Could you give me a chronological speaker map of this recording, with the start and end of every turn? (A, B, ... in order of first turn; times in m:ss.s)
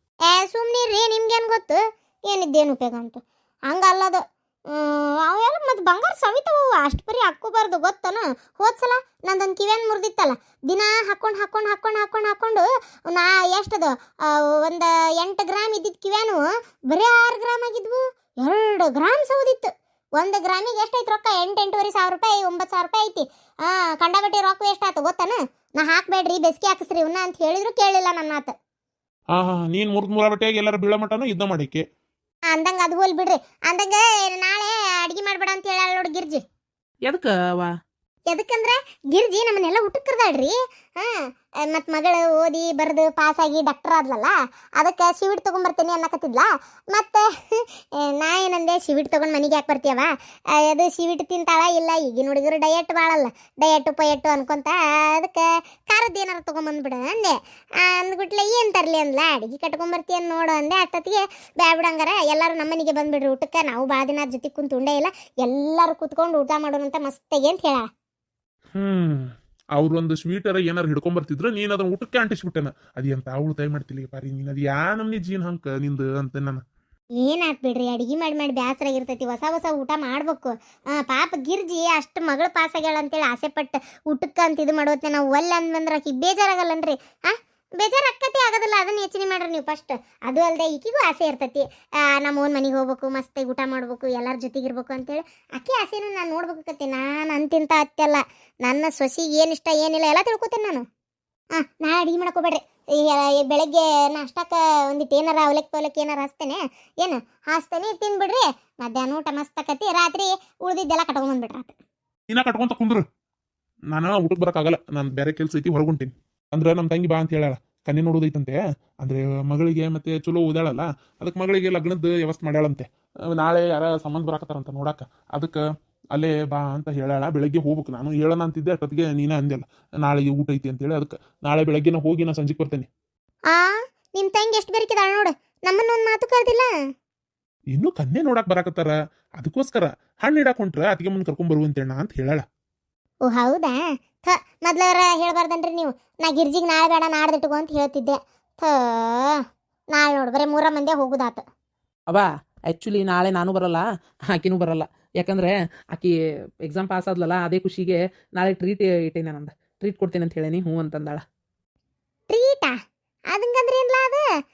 0:00.3-0:28.5 A
0:29.3-0:31.8 B
0:32.5-0:36.4 A
0:37.1-0:37.7 C
0:38.3-1:07.9 A
1:08.8-1:16.6 B
1:17.2-1:40.8 A
1:41.6-1:51.7 A
1:52.3-1:53.0 B
1:53.9-2:05.6 B
2:06.1-2:12.9 B
2:13.5-2:16.7 A
2:17.7-2:22.4 B
2:23.2-2:29.4 A
2:29.9-2:31.4 A
2:32.1-2:36.1 C
2:36.6-2:41.2 C
2:42.3-2:42.8 A
2:43.3-2:44.2 A